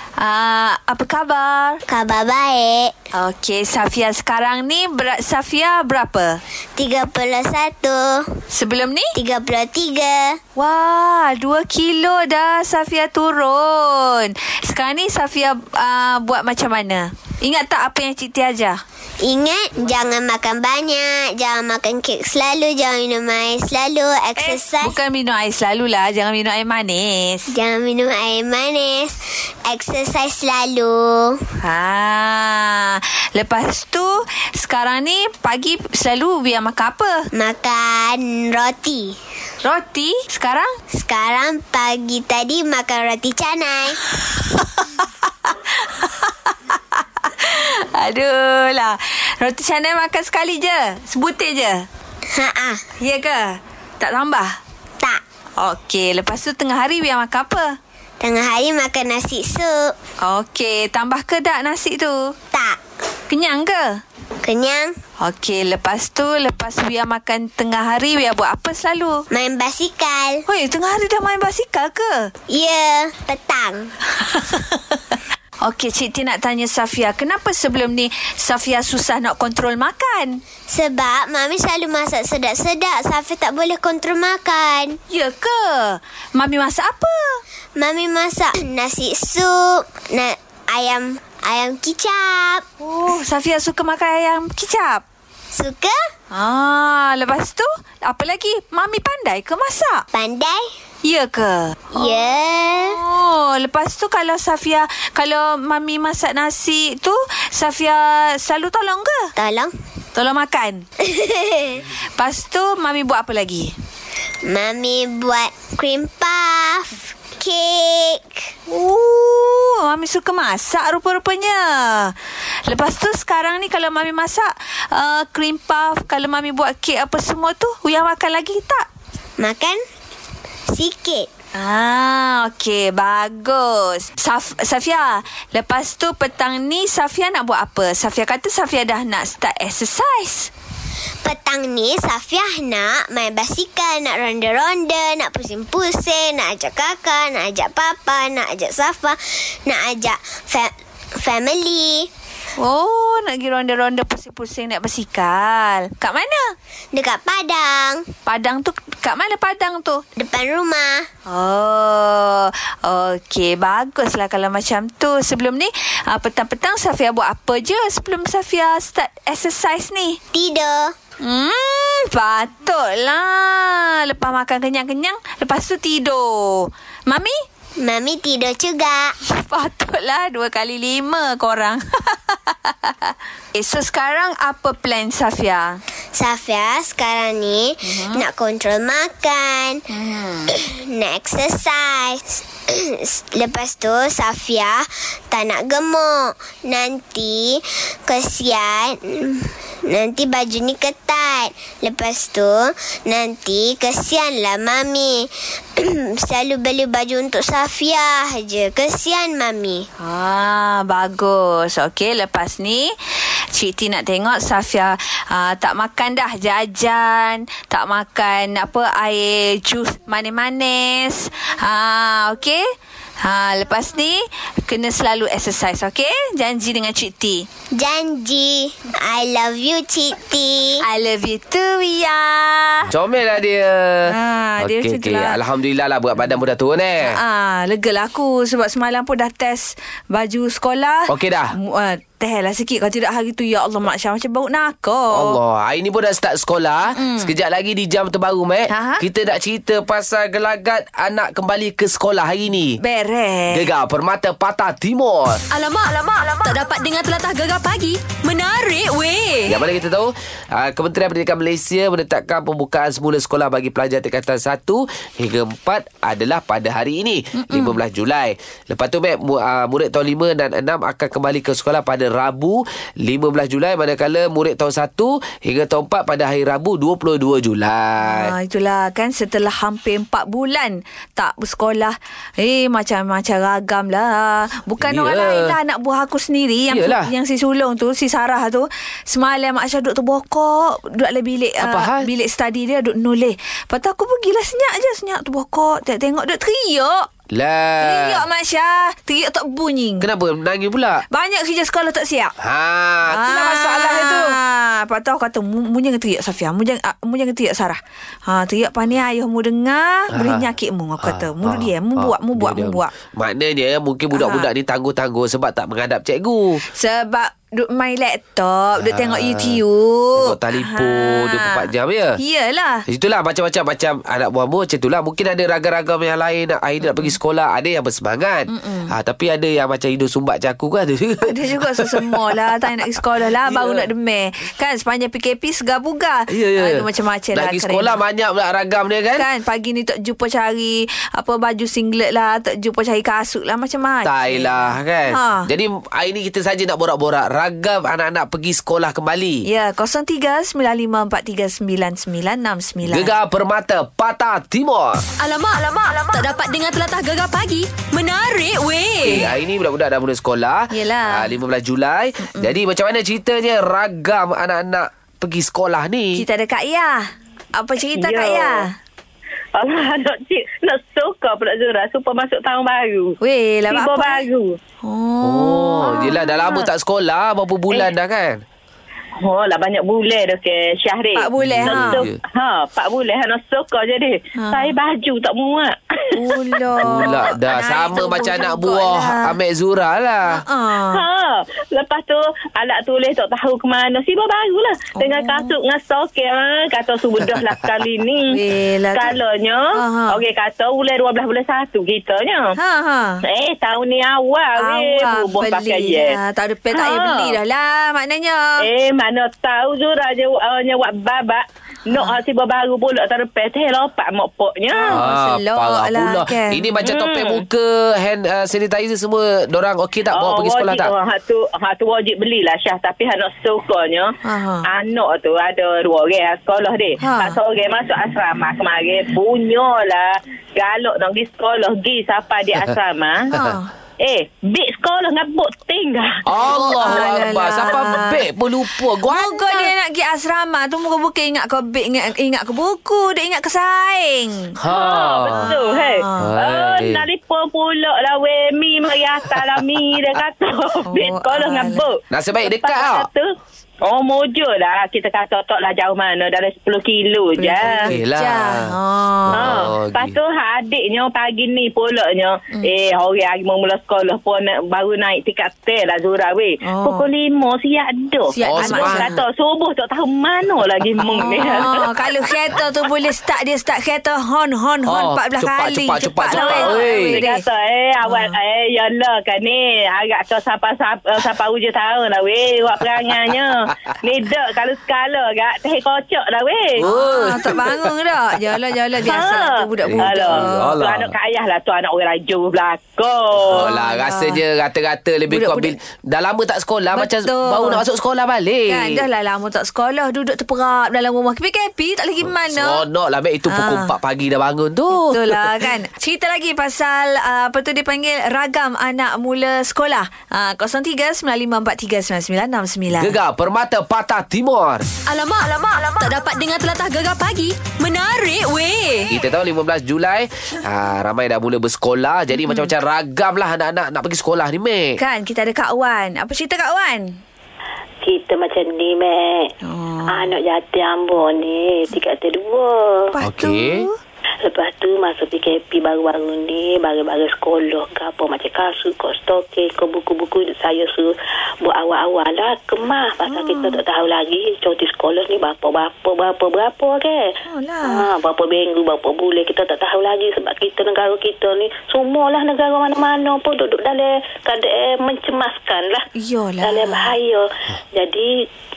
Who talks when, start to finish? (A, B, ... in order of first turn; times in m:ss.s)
0:00.2-0:01.8 A
0:01.9-0:02.9 B
0:03.1-0:06.4 A
0:06.8-0:08.4 B
0:08.5-0:09.1 A
0:09.1-0:10.4 B
0:10.6-0:18.8 A
0:19.2-0:25.0 B
0:24.4-0:27.5 A
0:27.5-0:31.4 B
0:31.6-0:37.3 A
0:37.3-0:39.2 B
0:39.6-0:40.7 A
0:40.9-0:44.0 B
0:44.2-0:51.9 A
0:52.3-0:52.8 B
0:53.0-0:54.6 A
0:55.6-0:57.7 A
0:58.2-0:59.9 B
1:00.2-1:02.3 A
1:02.5-1:02.8 B
1:03.3-1:04.0 A
1:04.4-1:05.0 B
1:05.2-1:09.2 A
1:09.3-1:10.4 B
1:10.5-1:12.3 A
1:12.5-1:13.9 B
1:14.2-1:20.4 A
1:20.7-1:25.0 B
1:25.1-1:27.4 A
1:27.7-1:32.6 B
1:32.8-1:35.0 A
1:35.5-1:36.1 B
1:36.3-1:40.0 A
1:40.1-1:40.7 B
1:41.0-1:42.3 A
1:41.9-1:43.0 B
1:42.8-1:49.3 A
1:49.4-1:49.7 B
1:50.1-1:50.8 A
1:51.0-1:51.8 B
1:52.2-1:53.7 A
1:54.4-1:58.5 B
1:58.7-2:02.1 A
2:02.7-2:08.8 A
2:09.4-2:09.8 B
2:10.7-2:11.3 B
2:11.6-2:20.5 A
2:21.2-2:32.1 B
2:32.6-2:36.5 A
2:36.9-2:38.0 B
2:38.2-2:40.0 A
2:40.2-2:41.1 B
2:41.3-2:50.2 A
2:50.3-2:50.9 B
2:51.2-2:57.3 A
2:57.8-2:59.1 B
2:59.3-3:05.8 A
3:06.1-3:09.8 B
3:07.8-3:08.2 A
3:09.9-3:10.6 A
3:10.5-3:29.9 B
3:30.0-3:32.9 A
3:33.5-3:42.6 A
3:43.2-3:47.5 A
3:47.7-3:50.8 B
3:50.8-3:52.9 A
3:52.9-3:57.2 C
3:54.1-3:55.4 A
3:57.1-4:05.4 A
4:01.1-4:01.5 C
4:05.1-4:12.8 C
4:06.9-4:07.3 A
4:08.7-4:09.0 A
4:12.8-4:13.6 A
4:13.5-4:15.4 C
4:15.5-4:19.5 D
4:19.4-4:38.3 C
4:27.4-4:27.8 A
4:38.0-4:57.1 A
4:44.8-4:45.6 C
4:46.7-4:47.1 C
4:51.6-4:52.1 C
4:57.3-4:58.2 C
4:57.8-5:00.1 A
5:00.0-5:01.0 C
5:01.1-5:02.3 A
5:02.4-5:04.4 C
5:03.1-5:12.9 A
5:10.1-5:10.5 C
5:11.0-5:16.6 C
5:14.1-5:14.5 A
5:16.7-5:22.8 A
5:18.8-5:19.6 C
5:20.1-5:22.2 C
5:22.9-5:32.6 C
5:26.8-5:27.1 A
5:28.5-5:28.9 A
5:31.3-5:38.0 A
5:33.4-5:33.9 C
5:36.3-5:36.8 C
5:37.3-5:39.3 C
5:39.2-5:45.5 A
5:44.0-5:49.4 C
5:49.4-5:53.1 A
5:52.8-5:55.0 C
5:55.2-5:59.1 D
5:59.0-6:06.2 C
6:00.7-6:01.3 A
6:06.1-6:08.7 A
6:07.8-6:08.7 E
6:09.5-6:13.1 E
6:13.2-6:14.2 A
6:13.7-6:14.6 E
6:14.8-6:16.7 A
6:15.2-6:18.4 C
6:19.2-6:25.8 E
6:21.2-6:22.0 A
6:21.4-6:22.2 C
6:24.4-6:24.7 A
6:26.2-6:29.3 A
6:26.8-6:30.4 C
6:30.3-6:31.0 A
6:30.8-6:38.2 E
6:35.0-6:35.6 A
6:38.3-6:39.1 A
6:38.9-6:42.5 E
6:39.8-6:40.2 A
6:42.6-6:43.2 A
6:43.3-6:46.2 E
6:44.6-6:48.6 A
6:46.7-6:47.4 E
6:48.6-6:55.0 E
6:51.9-6:52.2 A
6:54.7-6:56.8 A
6:54.9-7:00.9 C
6:56.8-6:57.4 E
7:00.1-7:04.1 E
7:04.2-7:04.6 A
7:04.7-7:13.2 E
7:07.0-7:07.4 A
7:13.3-7:13.7 A
7:14.0-7:17.2 E
7:16.2-7:19.7 C
7:16.5-7:18.2 A
7:19.0-7:24.6 A
7:24.6-7:25.4 C
7:24.7-7:33.3 E
7:25.3-7:26.3 A
7:26.2-7:27.1 C
7:30.9-7:31.8 A
7:32.1-7:33.1 C
7:33.8-7:37.9 E
7:37.4-7:39.5 A
7:37.6-7:38.7 C
7:39.3-7:40.2 C
7:39.3-7:52.1 E
7:46.6-7:47.1 A
7:48.3-7:49.1 A
7:48.4-7:49.2 C
7:51.1-7:57.4 A
7:54.9-7:57.2 C
7:56.3-8:06.8 E
7:58.0-7:58.3 A
8:06.8-8:07.9 C
8:06.8-8:10.8 A
8:09.0-8:13.7 E
8:09.8-8:11.1 C
8:13.4-8:19.0 C
8:13.5-8:14.4 A
8:15.3-8:15.7 A
8:16.9-8:17.8 A
8:18.7-8:22.8 A
8:22.3-8:25.5 C
8:23.5-8:23.9 A
8:25.0-8:33.1 A
8:32.9-8:34.8 C
8:35.0-8:39.1 D
8:39.1-8:45.0 C
8:42.4-8:42.7 A
8:45.0-8:47.2 A
8:48.0-8:49.5 F
8:49.6-8:50.3 A
8:50.1-8:53.0 F
8:53.1-8:54.0 A
8:53.2-8:53.9 C
8:54.4-9:01.1 F
9:01.6-9:07.2 F
9:03.3-9:03.8 A
9:07.5-9:08.0 A
9:07.8-9:16.0 F
9:16.1-9:17.1 A
9:16.6-9:18.3 F